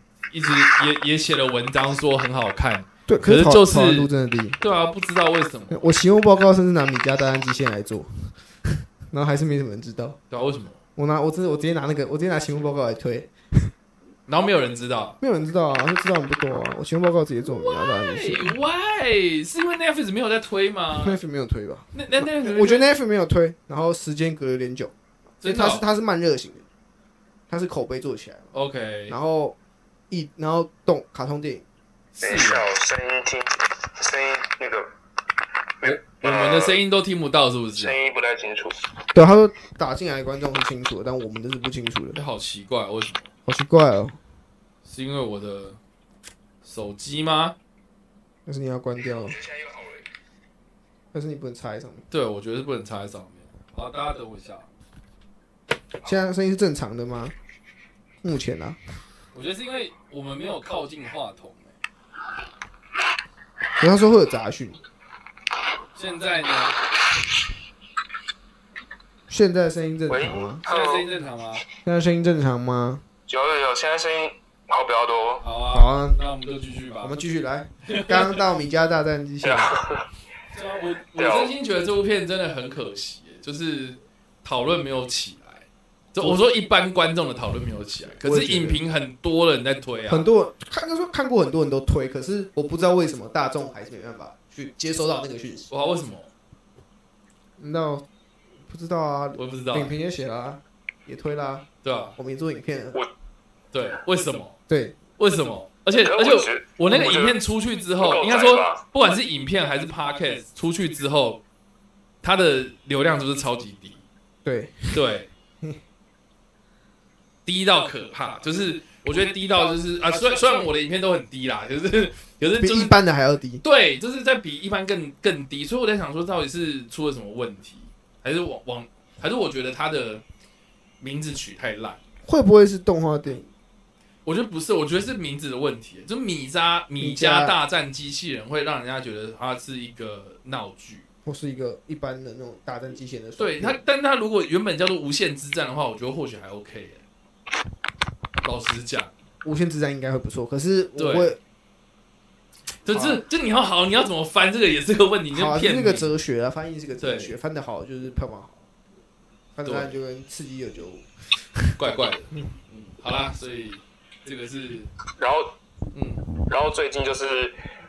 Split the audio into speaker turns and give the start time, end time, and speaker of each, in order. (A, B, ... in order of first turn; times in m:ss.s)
0:00.3-0:05.9 A
0:03.1-0:04.6 B
0:05.7-0:08.4 B
0:09.1-0:10.2 B
0:10.3-0:10.8 A
0:11.0-0:13.7 B
0:14.3-0:15.2 A
0:15.2-0:18.6 B
0:17.6-0:21.2 A
0:20.9-0:26.6 B
0:21.9-0:22.9 A
0:25.4-0:25.8 A
0:27.5-0:28.5 B
0:28.5-0:29.2 A
0:29.1-0:29.6 B
0:30.1-0:31.6 B
0:32.2-0:32.6 A
0:32.2-0:34.9 C
0:35.8-0:36.8 C
0:35.8-0:38.0 A
0:37.8-0:38.8 C
0:39.1-0:42.2 B
0:42.2-0:43.3 A
0:43.5-0:44.2 B
0:44.8-0:45.8 A
0:46.6-0:47.6 A
0:48.5-0:49.4 B
0:49.2-0:50.1 C
0:51.1-0:52.1 B
0:52.1-0:54.7 A
0:56.0-0:57.4 B
0:58.2-0:58.8 B
0:59.3-1:01.8 A
1:03.8-1:04.8 B
1:06.0-1:06.8 A
1:09.3-1:10.6 B
1:10.1-1:11.1 C
1:10.6-1:11.6 A
1:11.8-1:13.0 B
1:13.3-1:15.4 C
1:15.4-1:17.2 A
1:15.7-1:16.2 B
1:17.0-1:19.8 B
1:17.9-1:18.4 A
1:19.4-1:20.1 C
1:20.5-1:30.3 A
1:21.2-1:21.5 C
1:28.2-1:28.8 B
1:30.1-1:35.7 B
1:35.7-1:36.3 A
1:37.6-1:38.1 B
1:38.7-1:43.0 B
1:39.4-1:39.9 A
1:41.8-1:42.2 A
1:43.7-1:44.6 A
1:44.7-1:45.0 B
1:45.2-1:51.4 A
1:46.0-1:47.4 C
1:48.0-1:48.8 C
1:52.2-1:54.0 A
1:54.4-1:55.0 B
1:54.9-1:55.3 A
1:57.5-2:03.0 A
2:02.6-2:03.6 B
2:03.6-2:10.2 A
2:11.0-2:12.0 A
2:12.3-2:13.5 B
2:14.3-2:21.1 A
2:17.0-2:17.6 B
2:21.2-2:23.8 B
2:23.4-2:27.0 A
2:28.4-2:29.1 A
2:29.4-2:31.4 B
2:31.0-2:31.4 A
2:32.8-2:36.1 A
2:32.9-2:33.2 B
2:35.3-2:38.6 B
2:37.0-2:37.4 A
2:39.6-2:41.7 B
2:39.6-2:39.9 A
2:41.8-2:44.9 A
2:45.2-2:45.6 C
2:45.9-2:46.3 A
2:46.5-2:47.6 C